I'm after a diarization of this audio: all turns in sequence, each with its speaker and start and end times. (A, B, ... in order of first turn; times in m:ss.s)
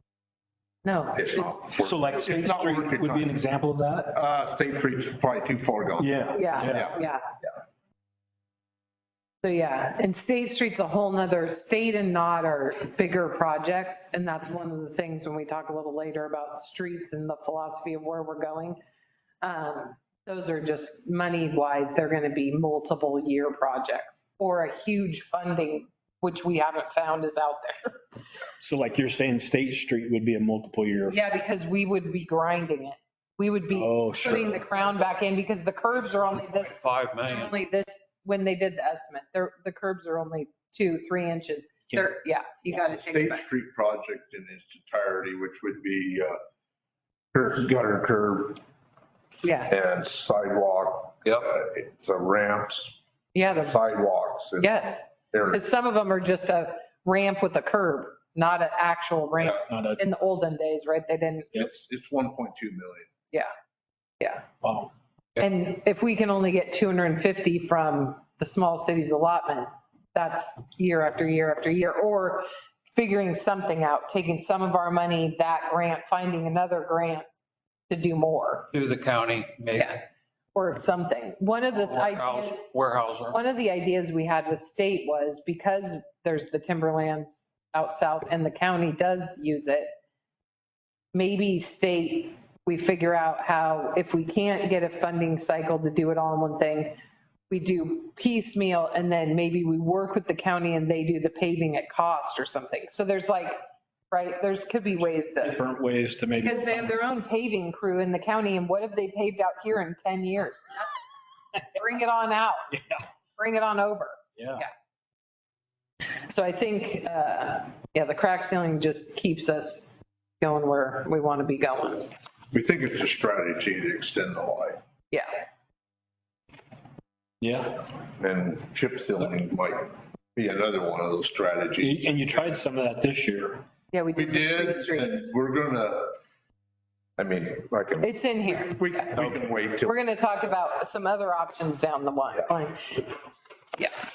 0:00.8-0:01.7 A
0:01.1-0:03.4 B
0:01.7-0:04.1 C
0:04.1-0:07.0 B
0:06.0-0:06.9 C
0:06.3-0:07.2 A
0:09.4-0:18.8 A
0:19.4-0:27.9 A
0:28.6-0:31.2 C
0:31.0-0:43.4 A
0:33.7-0:34.5 C
0:36.5-0:37.5 D
0:42.9-0:46.4 B
0:47.3-0:48.6 B
0:49.4-0:49.7 A
0:49.7-0:55.6 B
0:53.3-0:53.8 A
0:54.6-1:01.6 A
0:59.4-1:00.0 C
1:01.5-1:03.1 B
1:04.2-1:04.4 A
1:04.6-1:04.9 C
1:05.4-1:17.2 A
1:17.9-1:18.7 A
1:18.7-1:20.0 D
1:19.7-1:20.0 A
1:20.5-1:22.7 A
1:21.8-1:23.4 D
1:23.3-1:29.9 A
1:31.1-1:37.0 A
1:37.5-1:45.6 A
1:45.4-1:46.9 C
1:46.4-1:50.9 A
1:51.6-1:52.8 A
1:53.4-1:54.7 A
1:54.4-1:54.6 C
1:56.3-2:02.1 A
2:02.5-2:04.8 B
2:05.1-2:05.4 A
2:07.4-2:07.8 C
2:08.2-2:12.6 B
2:11.8-2:13.6 C
2:13.9-2:15.3 A
2:14.1-2:16.2 B
2:17.2-2:20.0 B
2:18.0-2:19.1 A
2:19.8-2:23.1 A